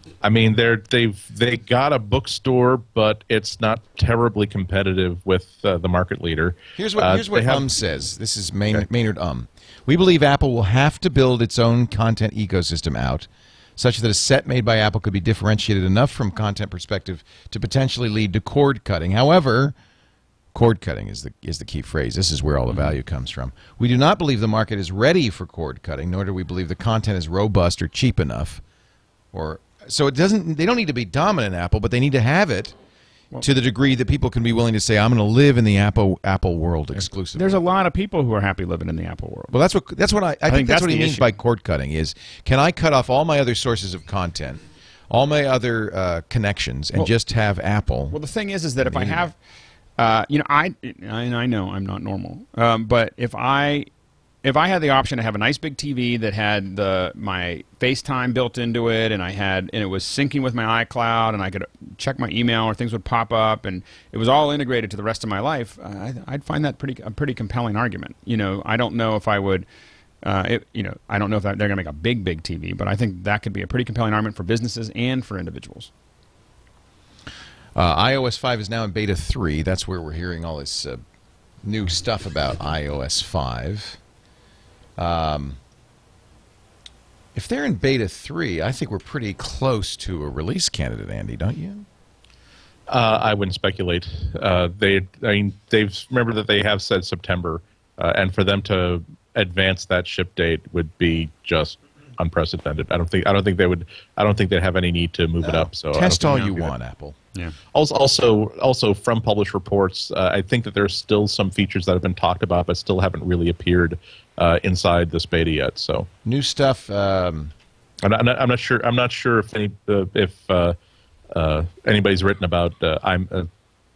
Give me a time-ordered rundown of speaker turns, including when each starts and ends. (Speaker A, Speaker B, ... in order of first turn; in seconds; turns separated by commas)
Speaker A: 0.2-7.7, Speaker B: 6.8-19.7, Speaker B: 20.5-28.6, Speaker B: 29.3-32.7, Speaker B: 33.4-37.6, Speaker C: 37.3-39.5, Speaker B: 39.5-48.1, Speaker C: 40.5-41.3, Speaker C: 48.1-49.4, Speaker B: 48.8-49.3, Speaker C: 50.0-53.9, Speaker C: 54.4-69.7, Speaker C: 70.2-75.9, Speaker B: 77.7-81.0, Speaker B: 81.6-84.0, Speaker B: 85.0-85.6, Speaker B: 87.3-91.8, Speaker A: 92.9-106.7, Speaker B: 105.4-107.2, Speaker A: 107.7-116.1, Speaker B: 116.2-117.5, Speaker A: 118.0-120.8, Speaker A: 121.3-123.5